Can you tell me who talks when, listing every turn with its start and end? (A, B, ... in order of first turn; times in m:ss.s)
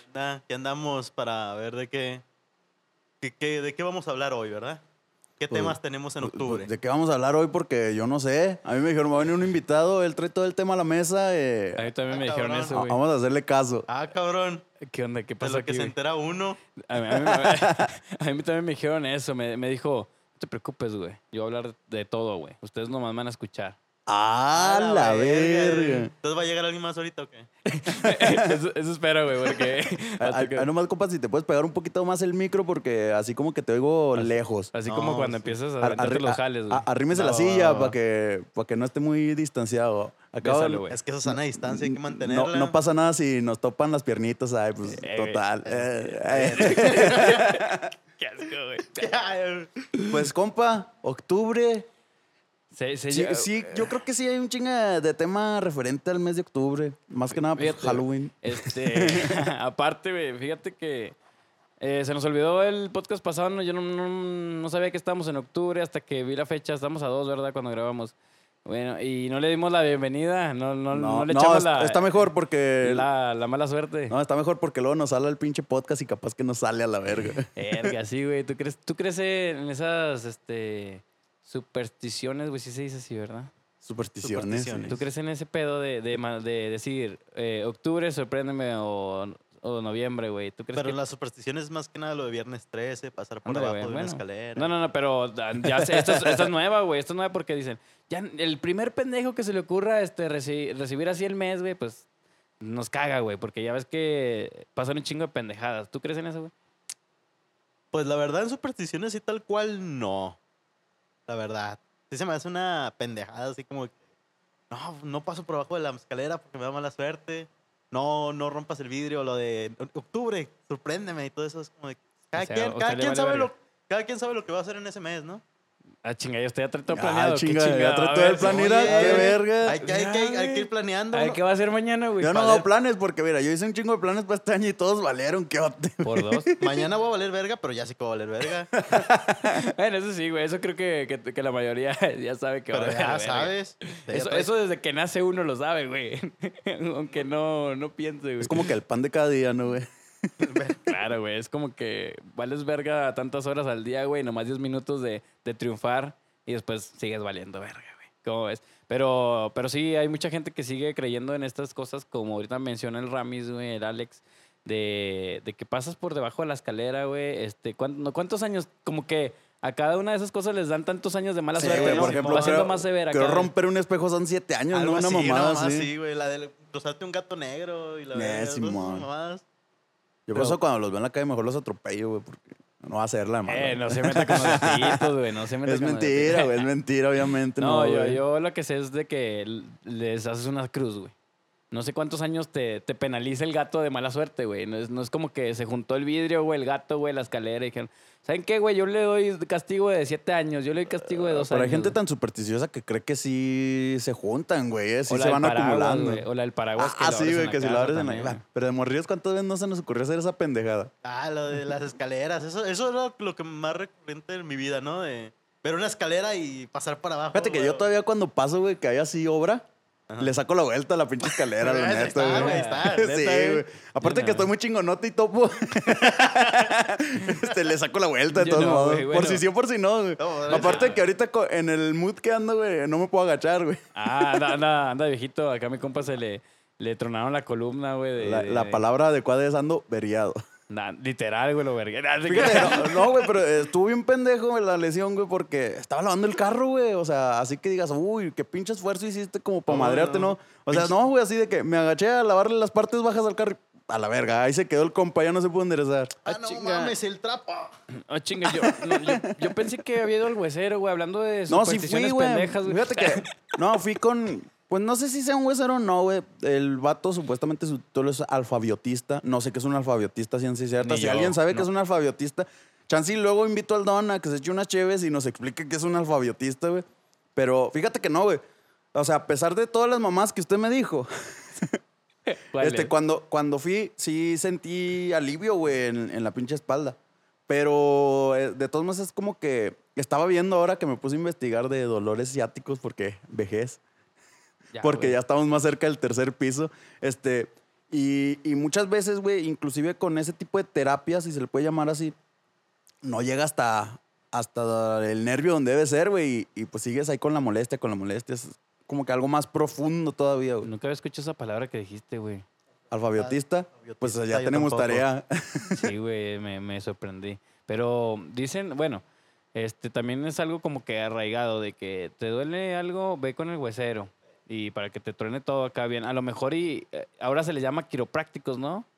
0:00.1-0:02.2 A
0:03.2-0:04.8 A
0:05.4-0:06.7 A
0:05.5-0:11.9 B
0:11.8-0:13.0 C
0:12.1-0:12.8 A
0:12.7-0:13.9 B
0:13.9-0:14.6 A
0:14.8-0:15.9 C
0:15.4-0:16.6 A
0:16.8-0:23.8 C
0:17.1-0:17.9 B
0:24.1-0:26.1 B
0:24.5-0:27.5 A
0:27.7-0:30.7 C
0:27.9-0:28.6 B
0:29.5-0:34.7 B
0:34.1-0:36.9 C
0:34.8-0:35.6 A
0:35.8-0:47.9 B
0:37.1-0:37.9 A
0:40.4-0:41.0 C
0:40.9-0:42.8 A
0:44.9-0:49.1 C
0:46.3-0:47.6 A
0:49.0-0:49.7 A
0:50.1-0:51.9 B
0:52.7-0:53.9 C
0:53.1-0:59.4 B
0:57.3-1:01.2 C
1:01.8-1:12.0 C
1:10.9-1:13.1 B
1:12.8-1:14.2 C
1:14.1-1:17.9 B
1:17.5-1:23.5 C
1:23.8-1:25.0 B
1:24.2-1:25.0 A
1:24.9-1:31.0 C
1:30.8-1:34.7 A
1:33.4-1:42.0 C
1:35.7-1:36.5 B
1:42.6-1:46.5 C
1:47.9-1:50.4 A
1:51.3-1:54.0 A
1:54.7-2:05.4 A
2:02.3-2:03.5 C
2:06.0-2:12.6 C
2:06.9-2:09.8 B
2:08.4-2:11.4 A
2:12.2-2:16.8 B
2:16.0-2:16.5 C
2:16.6-2:18.8 A
2:18.8-2:19.6 B
2:19.4-2:28.6 C
2:22.7-2:24.5 A
2:28.4-2:30.5 B
2:30.4-2:30.8 A
2:30.8-2:53.5 C
2:51.6-2:55.9 B
2:51.6-2:52.6 A
2:54.7-2:59.4 A
2:58.1-2:59.1 B
3:00.3-3:05.1 B
3:03.5-3:06.7 C
3:05.6-3:08.2 B
3:07.6-3:11.1 C
3:11.7-3:22.0 C
3:21.2-3:26.2 B
3:25.1-3:28.4 C
3:26.8-3:30.9 B
3:31.0-3:37.8 A
3:37.3-3:39.6 B
3:40.2-3:54.5 B
3:41.2-3:43.1 A
3:42.2-3:44.5 C
3:48.3-3:49.4 C
3:50.2-3:51.0 A
3:50.5-3:51.0 C
3:53.9-3:58.8 C
3:58.2-4:00.4 B
4:00.7-4:03.2 C
4:02.3-4:16.2 B
4:02.4-4:02.8 A
4:09.7-4:10.9 A
4:16.2-4:17.7 A
4:16.3-4:16.9 C
4:17.9-4:23.4 C
4:18.5-4:19.6 B
4:21.5-4:38.4 B
4:30.8-4:31.7 C
4:38.9-4:41.8 B
4:42.2-4:42.9 C
4:42.6-4:53.8 B
4:54.7-4:55.2 C
4:54.8-5:02.1 B
5:03.0-5:10.7 B
5:10.6-5:12.4 C
5:12.9-5:15.9 B
5:13.2-5:15.0 A
5:15.7-5:28.9 C